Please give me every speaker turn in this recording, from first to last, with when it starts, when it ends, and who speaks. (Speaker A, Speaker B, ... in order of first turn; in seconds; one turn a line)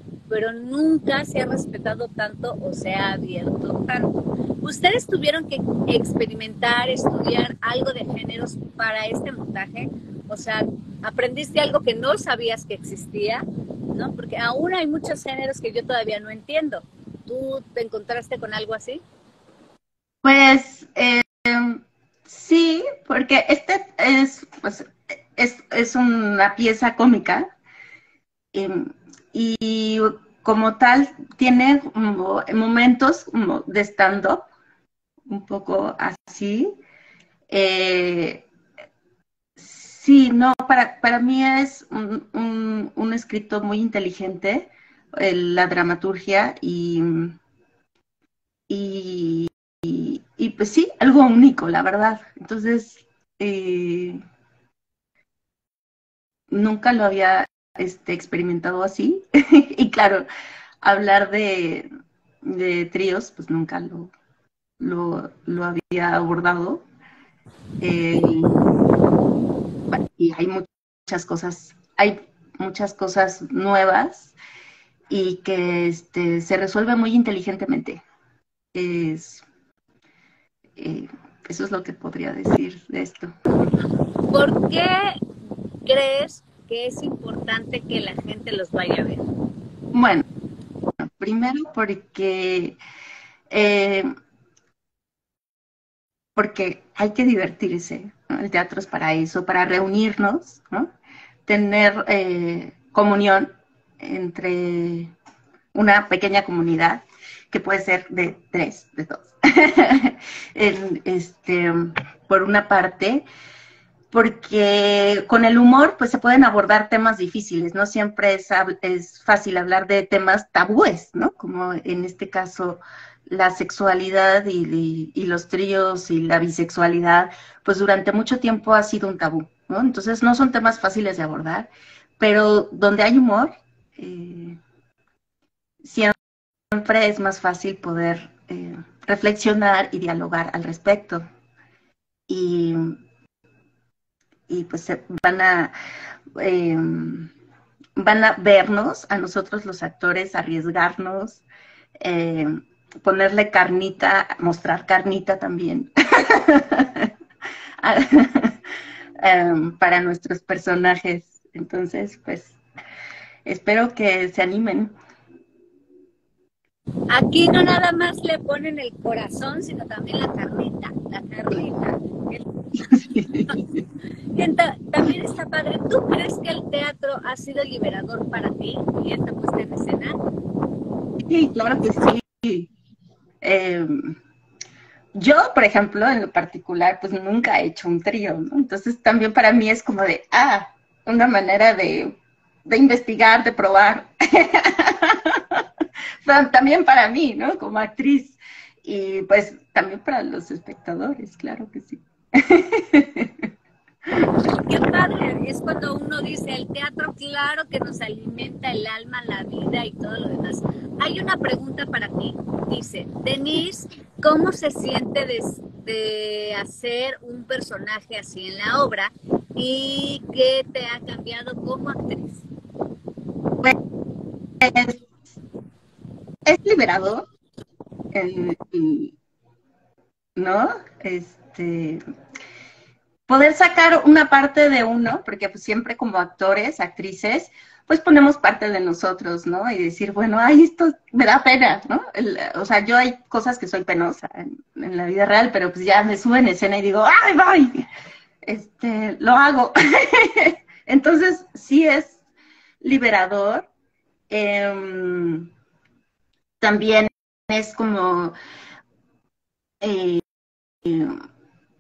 Speaker A: 0.3-19.0
Speaker B: 20.2-27.5
Speaker B: 28.5-34.5
Speaker B: 35.3-36.7
Speaker B: 37.5-38.5
Speaker B: 39.6-47.4
Speaker B: 48.7-54.2
Speaker B: 56.5-60.2
Speaker B: 60.8-61.9
Speaker B: 62.4-64.1
Speaker B: 64.8-66.8
Speaker B: 67.8-68.6
Speaker B: 69.9-74.3
Speaker B: 75.1-78.0
Speaker B: 78.7-79.5
Speaker B: 80.8-83.3
Speaker A: 84.3-85.2
Speaker A: 85.9-89.3
Speaker B: 89.9-90.2
Speaker B: 91.1-92.8
Speaker B: 93.5-94.1
Speaker B: 96.4-100.9
Speaker B: 101.5-105.1
Speaker B: 105.7-113.2
Speaker B: 114.1-134.6
Speaker B: 135.8-136.2
Speaker B: 136.7-141.2
Speaker B: 142.3-143.0
Speaker B: 144.5-145.7
Speaker B: 146.4-147.3
Speaker B: 148.0-151.4
Speaker B: 152.0-157.1
Speaker B: 157.8-158.6
Speaker B: 159.2-162.6
Speaker B: 163.4-164.9
Speaker A: 167.1-173.6
Speaker B: 172.9-173.6
Speaker A: 174.3-180.2
Speaker B: 181.2-182.7
Speaker B: 183.4-184.2
Speaker B: 185.2-195.6
Speaker B: 196.2-203.5
Speaker A: 204.5-222.5
Speaker B: 224.6-225.0
Speaker B: 226.5-227.2
Speaker B: 228.1-229.2
Speaker B: 230.4-232.0
Speaker B: 233.3-247.8
Speaker B: 248.4-252.2
Speaker B: 252.8-253.7
Speaker B: 254.3-255.5
Speaker B: 256.6-258.3
Speaker B: 259.8-260.2
Speaker B: 260.8-261.1